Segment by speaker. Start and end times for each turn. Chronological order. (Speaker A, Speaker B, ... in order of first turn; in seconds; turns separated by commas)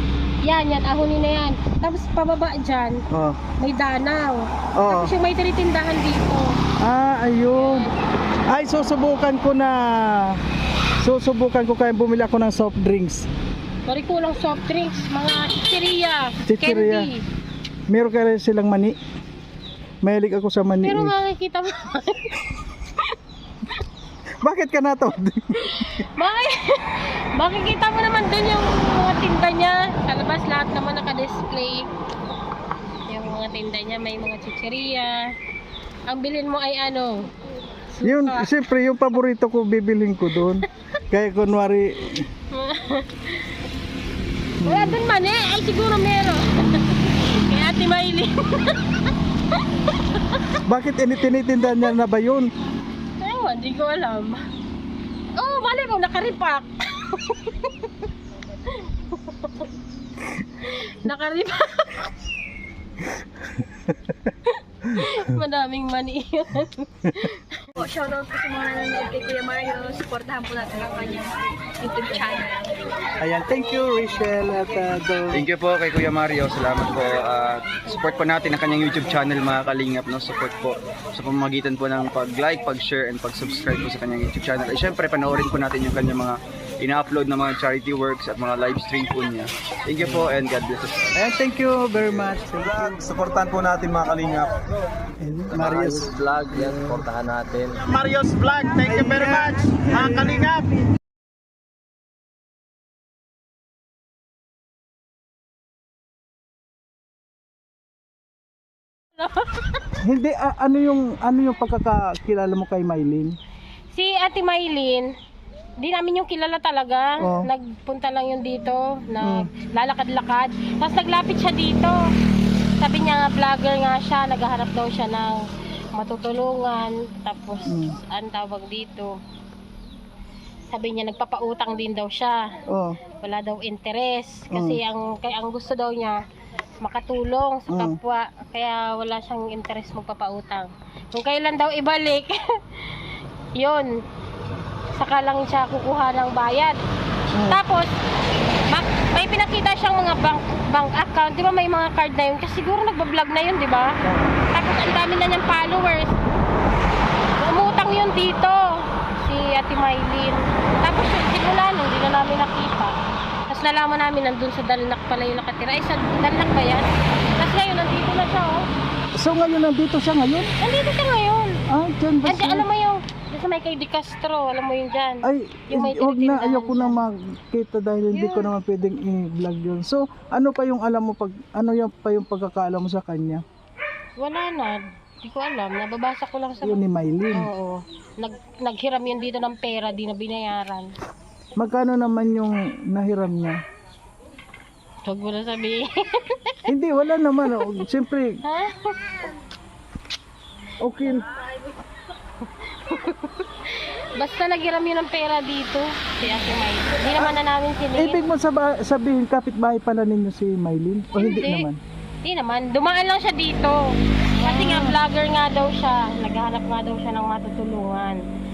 Speaker A: 0.4-3.0, Speaker B: 3.1-3.4, Speaker A: 3.6-6.6, Speaker B: 4.8-5.1, Speaker B: 6.8-7.9, Speaker A: 7.5-8.0, Speaker B: 8.5-10.4, Speaker B: 11.0-13.3, Speaker A: 13.8-17.2, Speaker B: 16.5-17.1, Speaker B: 17.9-18.9, Speaker B: 20.0-21.1, Speaker A: 20.8-22.4, Speaker B: 24.4-26.0, Speaker A: 25.6-31.9, Speaker A: 33.1-35.3, Speaker A: 36.1-37.3, Speaker A: 37.9-38.5, Speaker B: 38.0-42.2, Speaker A: 42.5-43.6, Speaker B: 44.6-45.0, Speaker A: 44.6-50.6, Speaker B: 50.7-52.5, Speaker A: 53.2-54.4, Speaker A: 55.4-59.7, Speaker A: 60.6-62.1, Speaker A: 64.5-67.7, Speaker C: 67.8-73.1, Speaker B: 73.2-75.4, Speaker D: 75.3-91.1, Speaker B: 91.1-93.0, Speaker E: 92.7-94.6, Speaker B: 95.2-96.1, Speaker D: 95.5-97.6, Speaker E: 96.5-100.5, Speaker B: 98.4-100.6, Speaker A: 109.2-109.8, Speaker B: 110.0-113.3, Speaker A: 113.9-115.1, Speaker A: 115.8-122.0, Speaker B: 117.2-117.5, Speaker B: 119.2-119.5, Speaker A: 122.8-125.4, Speaker A: 125.9-129.1, Speaker B: 127.7-127.9, Speaker A: 130.7-132.5, Speaker B: 132.7-133.0, Speaker A: 133.2-136.2, Speaker B: 134.5-134.8, Speaker A: 136.8-143.9, Speaker B: 137.7-138.0, Speaker A: 144.9-146.8, Speaker B: 147.3-147.6, Speaker A: 147.4-147.9, Speaker A: 148.7-154.0, Speaker B: 154.0-154.4, Speaker A: 154.5-156.1, Speaker A: 157.4-162.9, Speaker A: 163.5-166.9, Speaker A: 167.4-168.6, Speaker B: 169.2-170.5, Speaker A: 170.6-171.6, Speaker B: 171.7-172.7, Speaker A: 172.2-177.0, Speaker B: 175.2-183.4, Speaker A: 178.1-178.5, Speaker A: 184.2-190.9, Speaker B: 186.6-187.5, Speaker B: 191.6-193.6, Speaker A: 195.0-196.7, Speaker B: 196.7-198.4, Speaker A: 197.5-197.8, Speaker A: 198.4-199.2, Speaker B: 200.8-201.2, Speaker A: 201.3-201.6, Speaker A: 202.4-208.2, Speaker B: 207.9-211.8, Speaker A: 211.1-211.7, Speaker A: 212.2-213.8, Speaker A: 214.4-218.2, Speaker B: 214.4-215.0